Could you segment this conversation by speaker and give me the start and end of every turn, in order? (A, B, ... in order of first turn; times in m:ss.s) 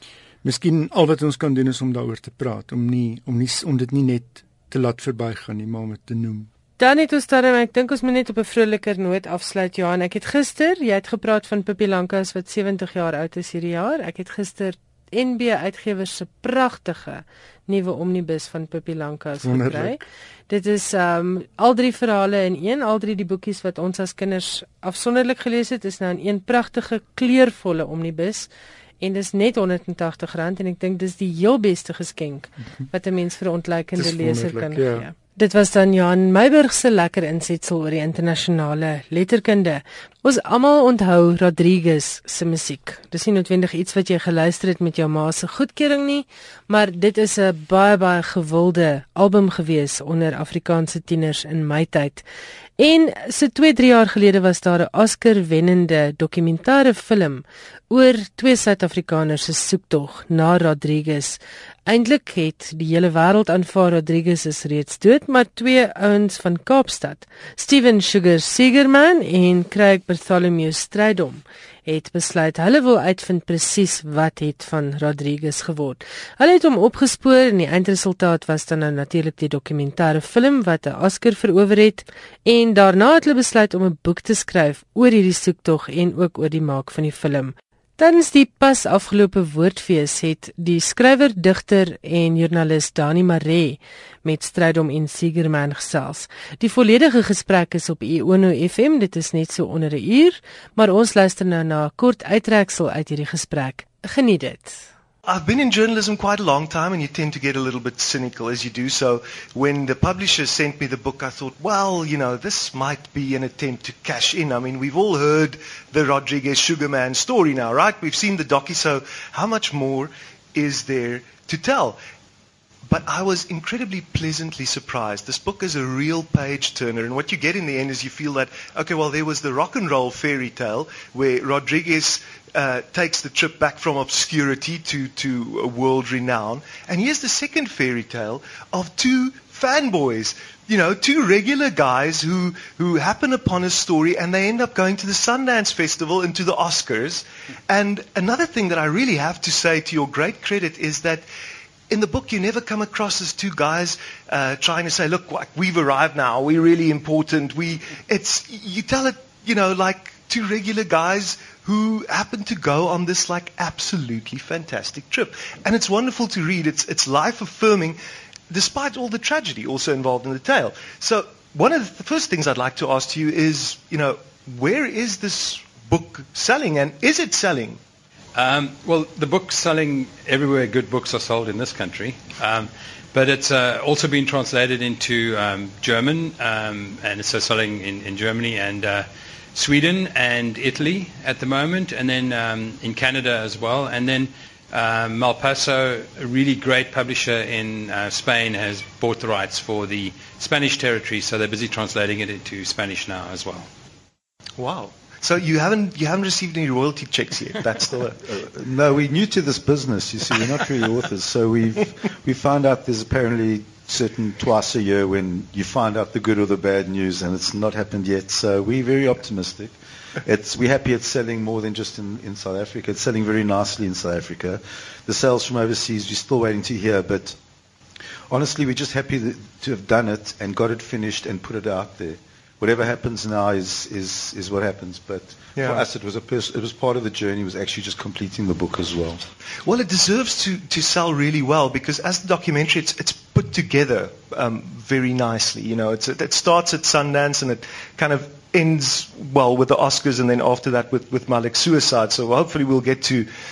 0:00.4-0:06.5 A
0:06.8-0:28.5 B
0:19.4-0:20.0 A
0:29.0-0:52.2 B
0:33.9-0:35.1 A
0:52.8-1:44.8 B
1:45.2-2:02.0 C
2:02.8-2:31.2 C
2:31.9-2:48.0 C
2:48.5-2:57.8 C
2:58.3-3:23.7 D
3:24.6-3:28.2 C
3:28.3-3:47.4 E
3:48.3-3:59.2 E
3:55.6-3:55.8 C
3:59.6-4:13.3 C